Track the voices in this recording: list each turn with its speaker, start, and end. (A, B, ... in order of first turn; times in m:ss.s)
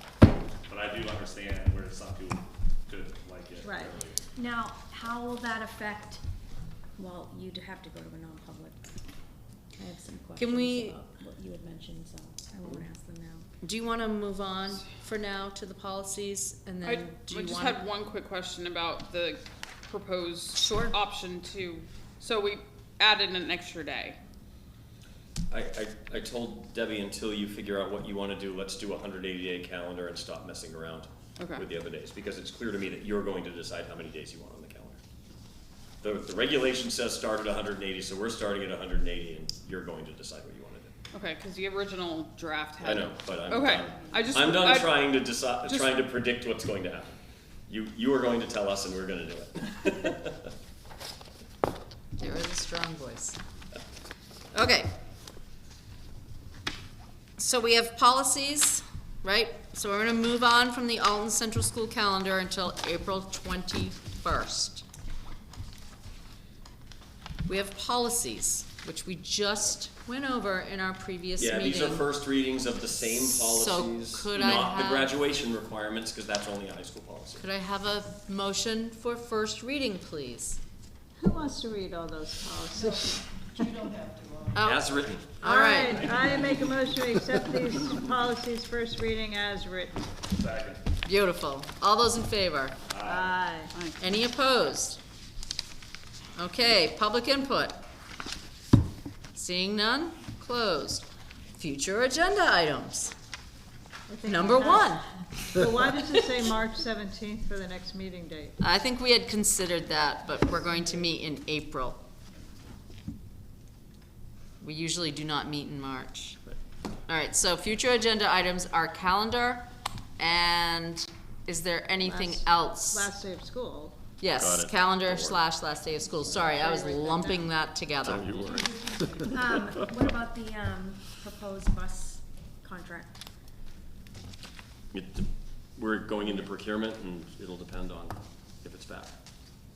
0:00.7-0:04.2 A
0:03.6-0:03.9 B
0:04.4-0:06.2 C
0:07.0-0:08.8 C
0:09.8-0:13.5 C
0:10.4-0:11.0 D
0:13.6-0:17.8 D
0:16.8-0:24.2 E
0:20.6-0:21.0 D
0:25.5-0:35.0 F
0:31.4-0:31.7 E
0:36.0-0:40.9 F
0:41.1-0:46.0 E
0:42.8-0:47.2 F
0:47.7-0:50.5 F
0:52.2-0:53.4 D
0:54.5-0:54.9 D
0:57.4-1:04.8 D
1:07.4-1:12.1 D
1:11.4-1:17.4 F
1:13.0-1:15.1 D
1:17.4-1:20.6 D
1:21.2-1:23.7 B
1:24.5-1:26.2 D
1:24.6-1:25.4 F
1:25.4-1:30.1 B
1:30.3-1:30.9 A
1:31.0-1:32.8 D
1:32.9-1:33.5 A
1:33.0-1:33.8 B
1:34.0-1:35.0 D
1:36.4-1:37.8 D
1:39.3-1:43.2 D
1:44.1-1:48.6 B
1:44.2-1:45.1 D
1:48.6-1:52.0 D
1:54.6-1:56.4 D
1:57.1-1:59.7 D
2:00.2-2:03.1 D
2:02.0-2:04.0 B
2:04.2-2:08.3 D
2:04.3-2:05.4 F
2:06.3-2:07.5 B
2:08.0-2:10.1 F
2:09.2-2:13.2 C
2:14.9-2:19.2 F